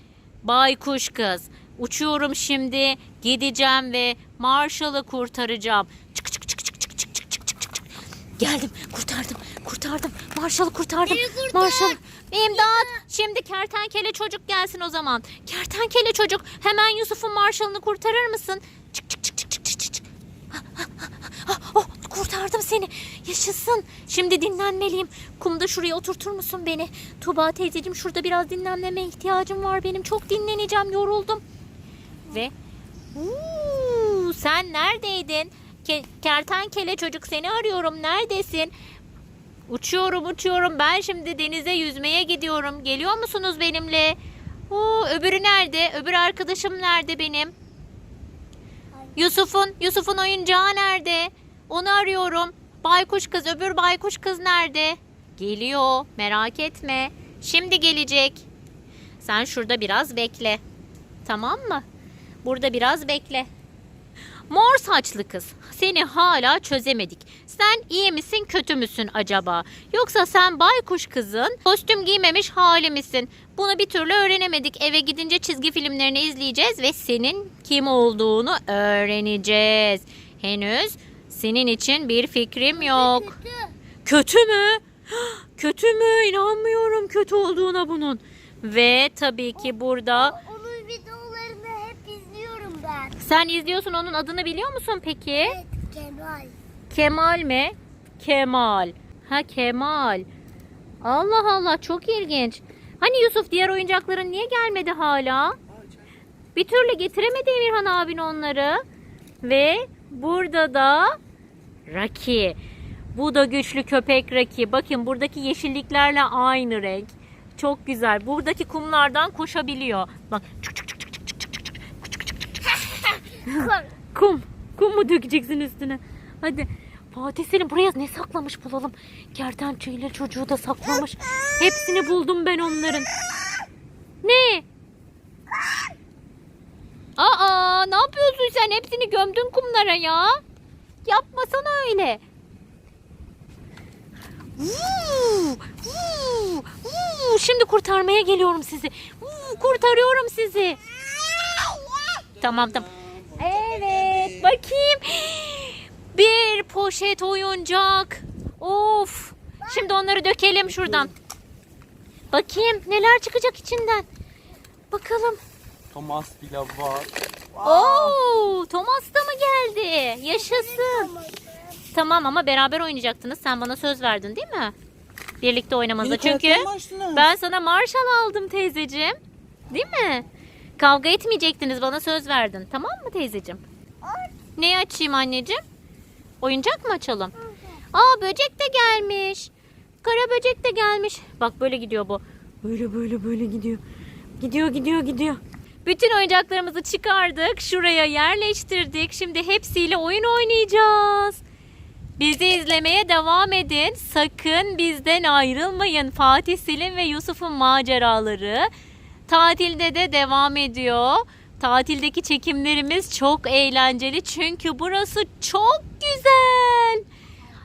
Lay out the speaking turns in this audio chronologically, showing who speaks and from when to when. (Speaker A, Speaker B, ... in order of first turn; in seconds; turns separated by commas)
Speaker A: 0.4-7.8, Speaker A: 8.4-31.4, Speaker B: 11.1-12.0, Speaker B: 12.5-13.0, Speaker A: 33.1-38.7, Speaker A: 39.7-44.2, Speaker A: 44.7-47.5, Speaker A: 49.1-58.5, Speaker A: 59.2-60.6, Speaker A: 61.2-61.8, Speaker A: 62.4-63.5, Speaker A: 64.5-83.3, Speaker B: 82.7-83.7, Speaker A: 84.0-90.3, Speaker B: 89.6-93.2, Speaker A: 93.2-95.6, Speaker B: 95.4-96.6, Speaker A: 96.9-100.3, Speaker A: 101.0-105.6, Speaker A: 106.5-108.8, Speaker A: 109.4-111.2, Speaker A: 111.9-112.6, Speaker A: 113.1-122.3, Speaker A: 123.4-133.1, Speaker A: 134.2-134.7, Speaker A: 137.2-140.4, Speaker A: 141.1-142.2, Speaker A: 144.6-150.8, Speaker A: 152.4-161.1, Speaker A: 162.3-164.1, Speaker A: 164.9-165.4, Speaker C: 165.9-168.2, Speaker A: 167.6-171.1, Speaker B: 170.4-171.8, Speaker A: 171.9-174.8, Speaker A: 175.4-179.2, Speaker C: 176.1-177.3, Speaker A: 179.7-180.2, Speaker A: 180.8-183.6, Speaker B: 184.0-184.3, Speaker A: 184.6-185.6, Speaker A: 186.4-187.3, Speaker A: 187.9-189.5, Speaker A: 190.0-193.8, Speaker A: 194.4-201.4, Speaker A: 202.2-208.7, Speaker A: 209.3-217.1